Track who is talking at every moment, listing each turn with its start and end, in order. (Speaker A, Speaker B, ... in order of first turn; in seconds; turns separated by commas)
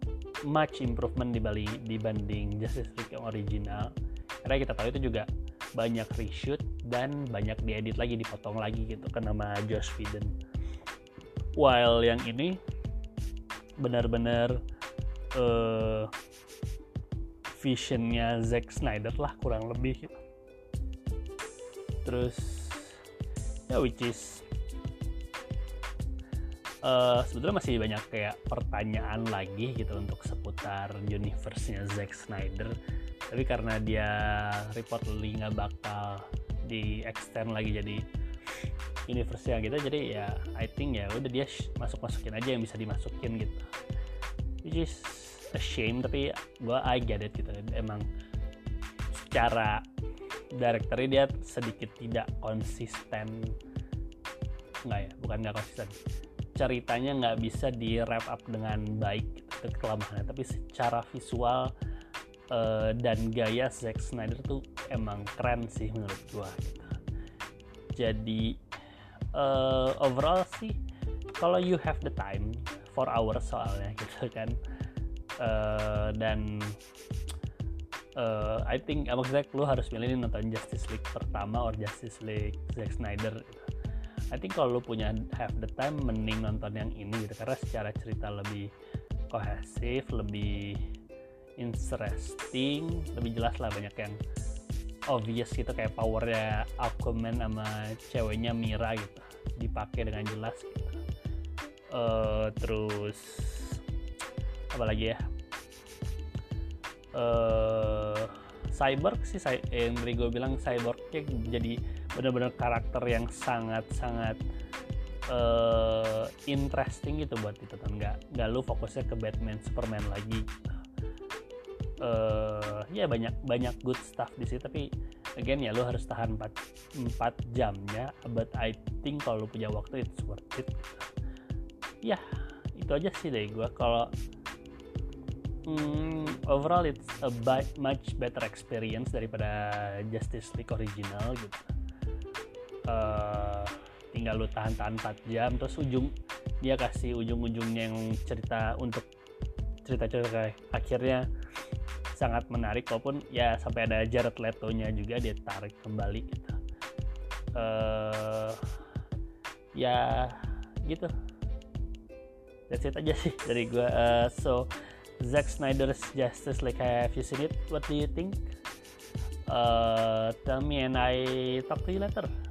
Speaker A: 0.4-3.9, Speaker A: 4.4-10.3, Speaker A: 11.6-12.6, Speaker A: 13.8-14.6, Speaker A: 15.3-16.1, Speaker A: 17.5-20.2, Speaker A: 22.0-23.0, Speaker A: 23.7-24.4, Speaker A: 26.8-32.8, Speaker A: 33.3-38.0, Speaker A: 39.1-43.7, Speaker A: 44.6-48.0, Speaker A: 49.1-49.8, Speaker A: 50.5-53.5, Speaker A: 54.9-55.9, Speaker A: 56.5-61.7, Speaker A: 62.5-66.9, Speaker A: 67.9-68.6, Speaker A: 69.3-70.8, Speaker A: 71.3-74.6, Speaker A: 75.4-76.8, Speaker A: 78.2-83.7, Speaker A: 84.3-88.7, Speaker A: 89.3-90.8, Speaker A: 91.6-94.2, Speaker A: 95.1-101.0, Speaker A: 101.9-103.8, Speaker A: 104.7-105.2, Speaker A: 107.1-114.4, Speaker A: 115.3-120.5, Speaker A: 122.0-131.1, Speaker A: 132.7-134.1, Speaker A: 135.6-141.7, Speaker A: 142.9-149.1, Speaker A: 149.8-151.2, Speaker A: 152.1-156.6, Speaker A: 157.5-158.6, Speaker A: 159.7-161.1, Speaker A: 162.7-164.7, Speaker A: 165.2-168.4, Speaker A: 169.5-172.3